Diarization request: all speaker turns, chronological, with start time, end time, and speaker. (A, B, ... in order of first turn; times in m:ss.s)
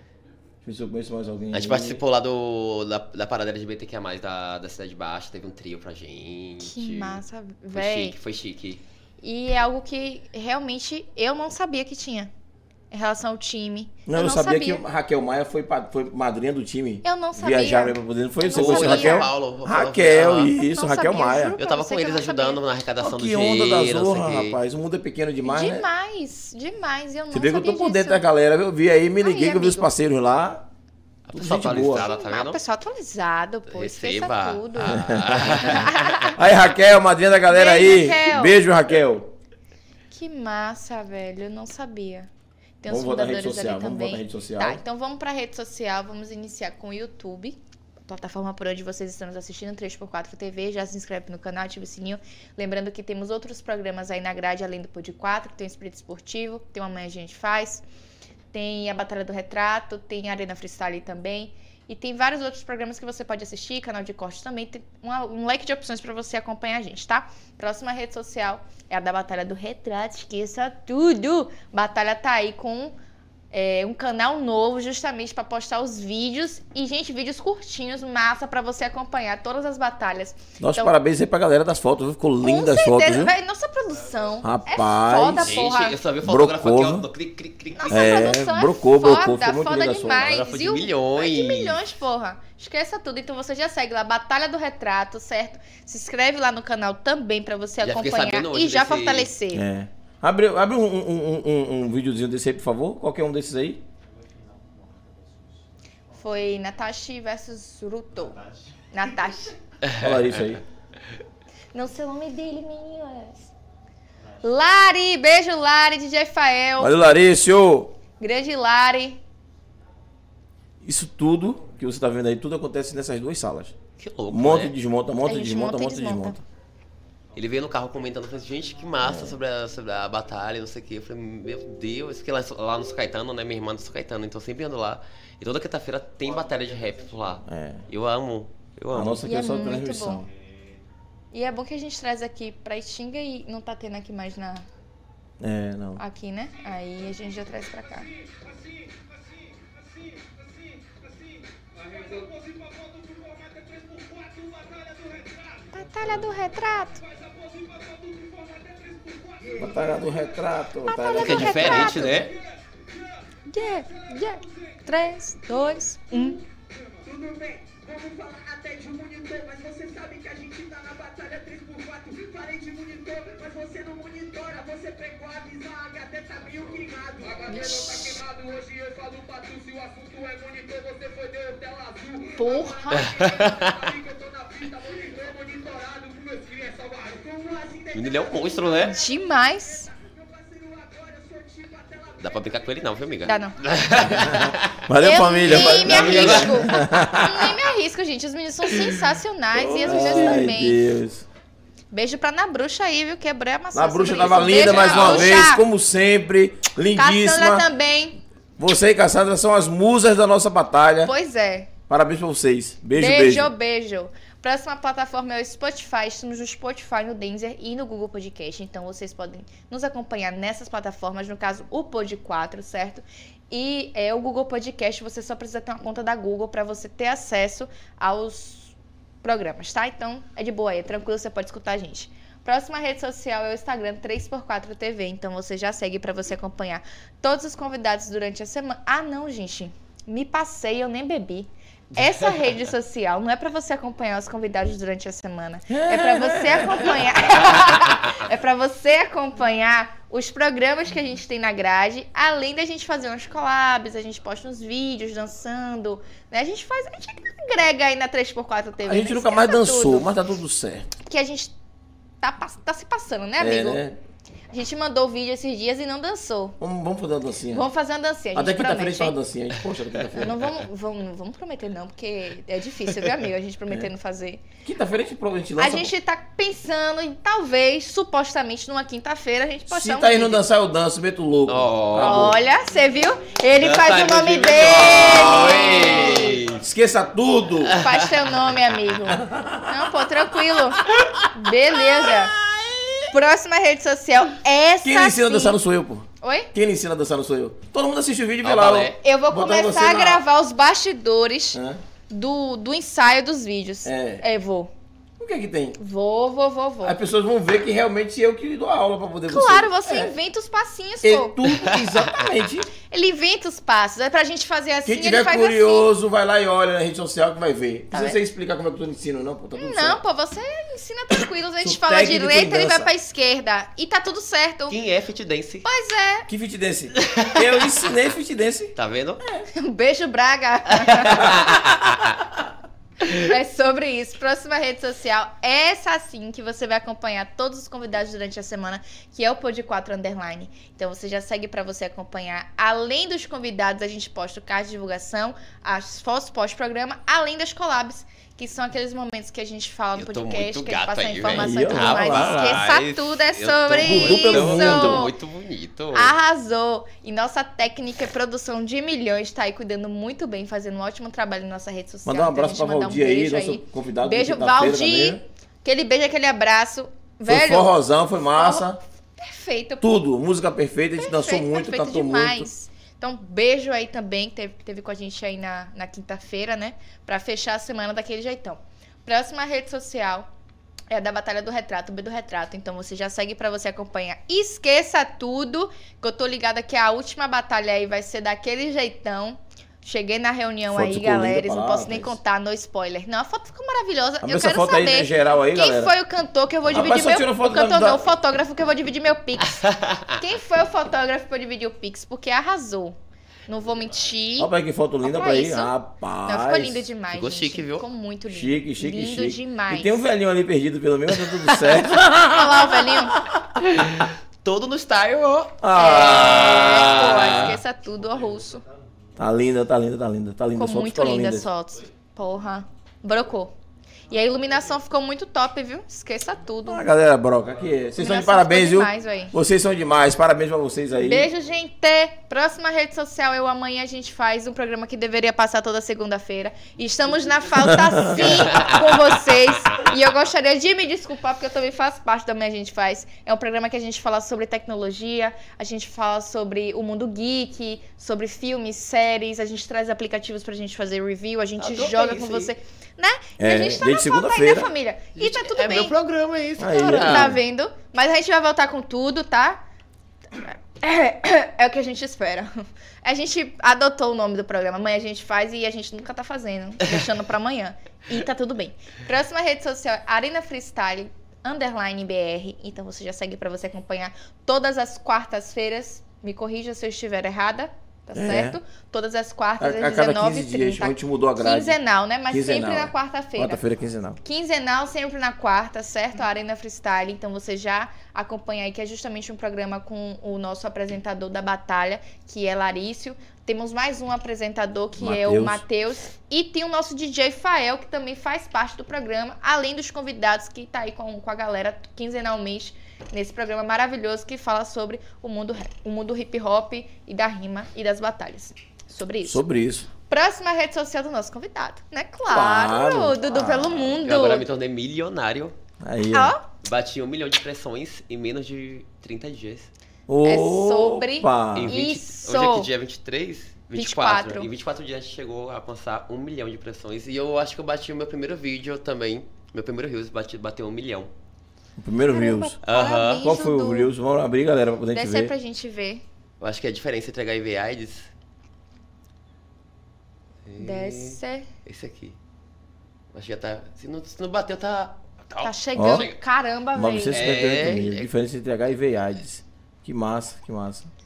0:00.6-0:02.0 A
0:01.5-0:07.2 B
0:06.6-0:08.2 C
0:07.7-0:08.8 B
0:09.2-0:12.3 C
0:12.9-0:14.8 C
0:14.1-0:21.6 A
0:17.0-0:19.3 C
0:18.5-0:20.5 B
0:20.5-0:22.6 C
0:21.6-0:24.6 B
0:23.0-0:25.8 A
0:25.4-0:28.2 C
0:27.3-0:30.7 A
0:29.2-0:29.9 C
0:31.3-0:32.6 B
0:31.3-0:32.1 A
0:31.9-0:36.3 C
0:33.7-0:36.3 B
0:34.8-0:39.3 A
0:37.5-0:38.6 C
0:40.1-0:42.3 C
0:42.8-0:57.8 C
0:42.9-0:44.8 A
0:58.5-1:12.9 C
1:13.5-1:20.9 C
1:20.6-1:23.3 A
1:22.4-1:26.0 C
1:24.4-1:25.6 A
1:25.4-1:28.2 B
1:26.2-1:27.0 A
1:27.8-1:39.6 C
1:27.9-1:30.4 A
1:30.1-1:31.8 B
1:37.8-1:39.3 B
1:39.5-1:43.8 A
1:44.0-1:46.8 D
1:46.2-1:48.4 C
1:48.2-1:48.8 D
1:48.9-1:49.5 C
1:49.8-1:50.2 B
1:50.0-1:50.6 A
1:51.7-1:53.5 C
1:54.2-1:54.5 D
1:54.4-1:57.0 C
1:56.8-1:57.9 A
1:58.2-1:59.2 C
2:00.8-2:03.7 A
2:04.0-2:04.7 B
2:04.3-2:06.4 A
2:05.2-2:06.4 C
2:07.3-2:19.2 B
2:07.6-2:09.0 D
2:09.0-2:09.4 A
2:16.2-2:17.4 D
2:17.4-2:17.8 A
2:18.9-2:20.3 A
2:19.2-2:20.2 C
2:21.3-2:24.6 C
2:25.4-2:26.0 A
2:26.0-2:28.1 C
2:28.0-2:40.5 D
2:35.7-2:37.0 C
2:39.6-2:42.0 A
2:40.8-2:42.3 C
2:41.1-2:42.3 B
2:41.9-2:44.8 D
2:43.5-2:46.4 C
2:45.5-3:13.8 D
2:57.5-2:58.2 C
3:02.4-3:03.1 C
3:02.9-3:03.9 B
3:07.9-3:08.9 B
3:08.8-3:09.9 C
3:12.2-3:14.9 B
3:13.2-3:13.5 C
3:14.2-3:17.6 A
3:15.0-3:20.8 C
3:15.4-3:16.8 B
3:19.5-3:21.2 A
3:21.9-3:25.6 C
3:23.7-3:27.7 A
3:24.5-3:25.3 B
3:26.9-3:28.2 C
3:28.6-3:31.1 A
3:31.0-3:31.7 C
3:31.9-3:33.5 A
3:32.9-4:20.1 C
4:05.7-4:07.1 A
4:18.8-4:20.9 A
4:21.0-4:21.5 C
4:22.2-4:23.8 C
4:23.4-4:24.0 A
4:24.5-4:26.6 C
4:26.6-4:27.7 A
4:27.5-4:29.2 C
4:28.3-4:30.4 A
4:30.1-4:34.4 C
4:34.6-4:35.9 A
4:35.6-4:40.4 C
4:39.7-4:42.4 A
4:41.5-4:42.3 B
4:42.0-4:46.4 C
4:43.6-4:46.6 B
4:44.9-4:47.8 A
4:47.6-4:48.3 B
4:47.7-4:52.3 C
4:49.1-4:50.1 A
4:53.1-4:55.6 C
4:54.8-5:00.2 A
4:56.2-4:56.5 C
4:58.4-4:59.0 B
4:59.0-5:01.6 C
5:01.5-5:01.8 A
5:02.1-5:04.7 C
5:03.8-5:04.2 A
5:05.2-5:05.8 A
5:05.8-5:07.0 C
5:06.8-5:10.1 A
5:09.3-5:11.4 C
5:11.0-5:12.7 A
5:12.9-5:15.9 C
5:14.8-5:20.0 A
5:17.9-5:18.2 C
5:19.6-5:24.8 C
5:21.6-5:22.9 A
5:24.7-5:25.7 B
5:25.6-5:26.3 C
5:26.3-5:29.4 A
5:27.0-5:27.8 B
5:28.7-5:29.2 B
5:29.5-5:31.4 C
5:30.8-5:32.2 B
5:31.2-5:31.8 A
5:33.1-5:55.1 C
5:50.0-5:56.1 B
5:51.3-5:52.6 A
5:53.8-5:55.1 A
5:55.9-6:07.7 C
6:02.0-6:05.2 A
6:07.3-6:08.8 A
6:08.4-6:09.8 C
6:09.8-6:12.5 A
6:11.0-6:20.3 C
6:20.9-6:39.6 C
6:30.7-6:32.2 A
6:34.2-6:35.9 A
6:36.7-6:38.1 A
6:39.6-6:40.1 B
6:40.1-6:43.0 C
6:43.5-6:44.5 C
6:44.4-6:46.8 A
6:45.0-6:45.7 C
6:46.2-6:50.0 C
6:47.1-6:47.8 B
6:48.3-6:53.4 A
6:51.1-6:51.8 B
6:52.3-6:53.2 C
6:53.6-6:57.6 B
6:55.6-6:57.6 A
6:55.7-6:58.6 C
6:57.9-6:59.1 D
6:59.2-7:01.4 A
7:00.6-7:03.5 C
7:04.1-7:06.8 C
7:06.7-7:11.3 A
7:07.9-7:09.3 C
7:11.0-7:35.9 C
7:17.6-7:18.3 A
7:18.1-7:18.8 B
7:31.6-7:32.5 B
7:33.4-7:34.7 A
7:35.2-7:37.3 B
7:36.6-7:37.4 A
7:36.7-7:39.6 C
7:40.3-7:42.5 C
7:43.0-8:03.6 C
7:58.1-7:58.6 A
7:59.6-8:01.8 A
8:02.3-8:04.2 A
8:04.2-8:29.4 C
8:15.0-8:15.6 A
8:29.2-8:29.9 A
8:30.1-8:34.4 C
8:32.3-8:34.0 A
8:34.0-8:35.5 B
8:35.8-8:36.3 A
8:36.1-8:36.4 C
8:36.6-8:39.7 B
8:40.1-8:41.8 A
8:40.2-8:42.7 C
8:41.5-8:51.1 B
8:43.7-8:44.5 C
8:51.8-8:52.6 A
8:52.1-8:53.9 C
8:52.6-8:53.3 B
8:53.2-8:55.3 A
8:54.9-8:56.0 C
8:56.4-8:58.1 B
9:00.4-9:02.2 B
9:00.6-9:01.5 C
9:03.1-9:06.1 B
9:05.4-9:07.2 C
9:05.8-9:06.1 A
9:06.7-9:10.9 A
9:07.1-9:08.1 B